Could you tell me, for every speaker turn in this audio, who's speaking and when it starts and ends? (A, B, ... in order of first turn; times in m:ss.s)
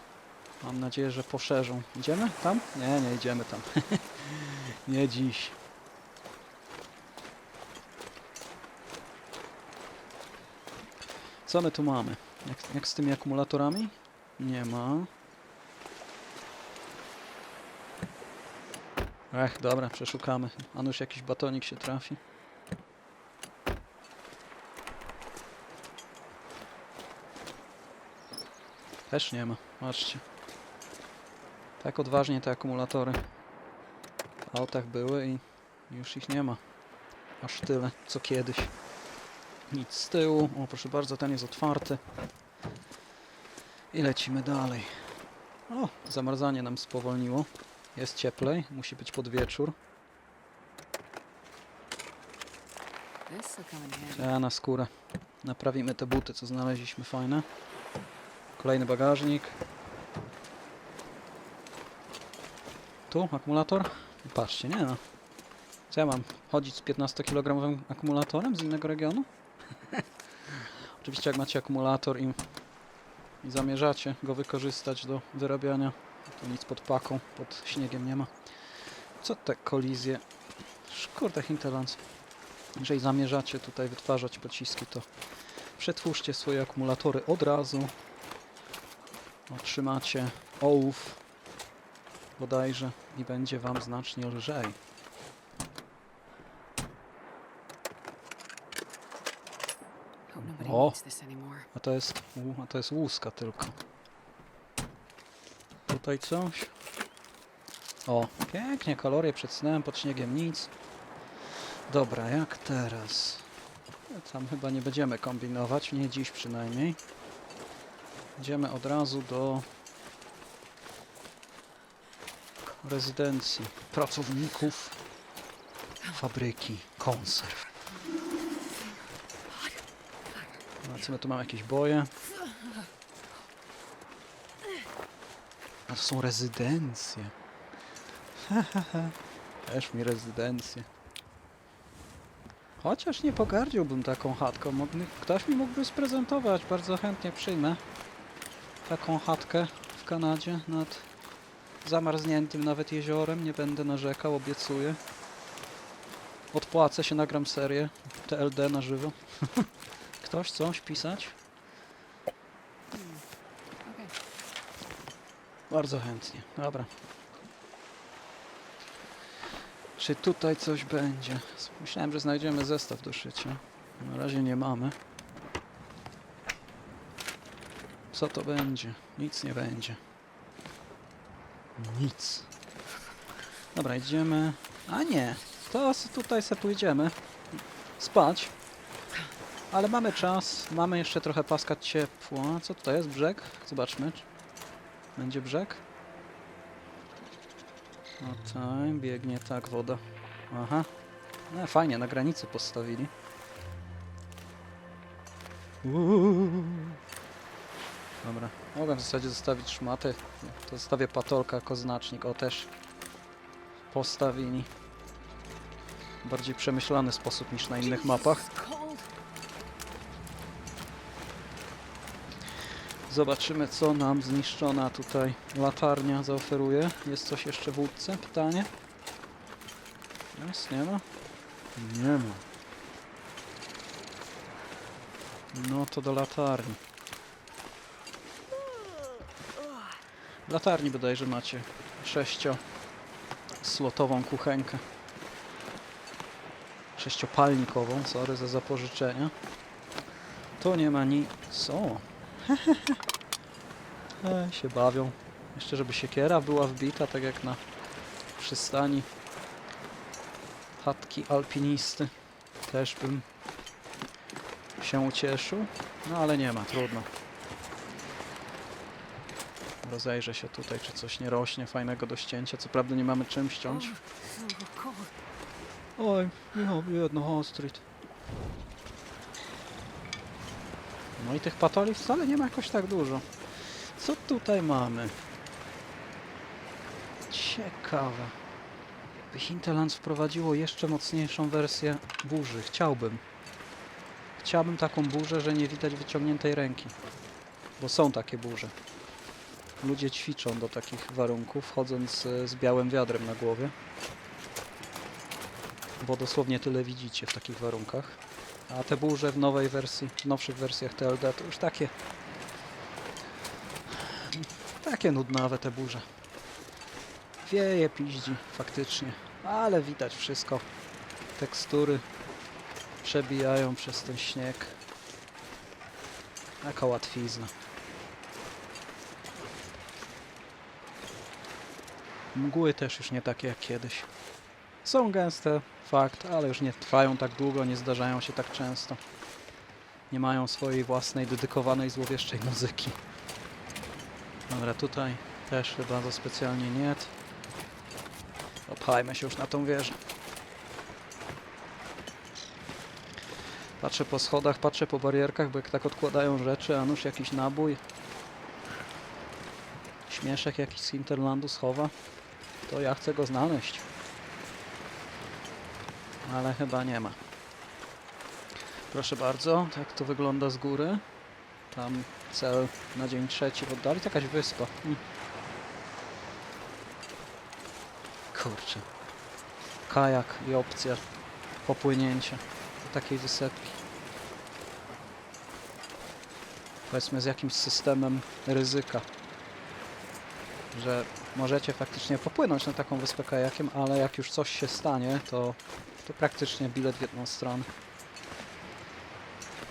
0:00.6-0:05.6 A
0:11.5-0:15.1 A
0:19.3-0:22.2 A
0:29.1-0:30.2 A
0:31.8-0:33.2 A
0:34.5-0:36.6 A
0:37.4-0:38.7 A
0:39.7-0:42.0 A
0:43.9-0:45.0 A
0:45.7-0:49.8 A
0:53.3-0:54.3 B
0:54.1-0:54.9 A
0:55.4-0:57.5 A
0:58.6-0:59.6 A
1:03.1-1:05.0 A
1:05.9-1:09.3 A
1:11.0-1:12.4 A
1:13.4-1:18.3 A
1:19.2-1:20.2 A
1:20.9-1:22.0 A
1:22.8-1:25.1 A
1:25.8-1:27.9 A
1:29.5-1:31.2 A
1:32.4-1:34.8 A
1:40.3-1:41.7 B
1:40.4-1:41.0 A
1:41.7-1:43.8 A
1:45.9-1:46.7 A
1:48.1-1:50.7 A
1:51.9-1:53.5 A
1:54.1-1:57.0 A
1:58.4-1:59.7 A
2:02.8-2:05.0 A
2:06.1-2:07.7 A
2:09.5-2:10.6 B
2:10.8-2:12.1 A
2:12.5-2:12.8 B
2:15.9-2:17.3 A
2:18.4-2:20.9 A
2:22.8-2:27.8 A
2:28.8-2:31.1 A
2:31.8-2:35.0 A
2:36.5-2:39.7 A
2:40.2-2:41.4 A
2:42.9-2:43.3 B
2:43.8-2:44.2 B
2:45.7-2:46.9 A
2:50.0-2:55.0 A
2:58.1-3:00.0 A
3:01.8-3:02.5 A
3:03.7-3:07.2 A
3:08.0-3:08.5 A
3:09.7-3:14.3 A
3:15.2-3:15.8 A
3:18.2-3:20.9 A
3:21.5-3:23.1 A
3:25.8-3:27.0 A
3:28.2-3:32.7 A
3:33.9-3:34.7 A
3:36.2-3:38.5 A
3:37.7-3:39.1 B
3:43.1-3:48.7 A
3:50.3-3:51.0 A
3:51.8-3:52.4 A
3:55.5-3:56.8 A
4:00.5-4:02.6 A
4:03.6-4:04.8 A
4:07.0-4:09.3 A
4:10.6-4:13.0 A
4:14.2-4:17.6 A
4:18.4-4:19.1 A
4:20.8-4:22.1 A
4:22.7-4:23.3 A
4:24.8-4:27.1 A
4:29.8-4:33.9 A
4:33.7-4:35.2 B
4:36.0-4:37.8 A
4:41.2-4:45.2 A
4:47.3-4:48.4 A
4:49.3-4:53.2 A
4:54.4-4:57.0 A
4:57.8-4:58.7 A
4:59.8-5:03.7 A
5:06.0-5:11.9 A
5:14.1-5:16.0 A
5:17.4-5:20.7 A
5:21.4-5:22.0 A
5:23.0-5:24.8 A
5:26.6-5:27.5 A
5:32.3-5:34.1 A
5:34.8-5:39.0 A
5:40.1-5:43.0 A
5:44.5-5:47.1 A
5:48.7-5:50.0 A
5:53.8-5:57.8 A
6:00.1-6:01.9 A
6:02.7-6:03.9 A
6:06.2-6:07.2 A
6:08.9-6:11.0 A
6:11.7-6:15.0 A
6:18.3-6:18.9 A
6:19.9-6:21.0 A
6:21.6-6:23.8 A
6:26.9-6:29.1 A
6:30.7-6:37.7 A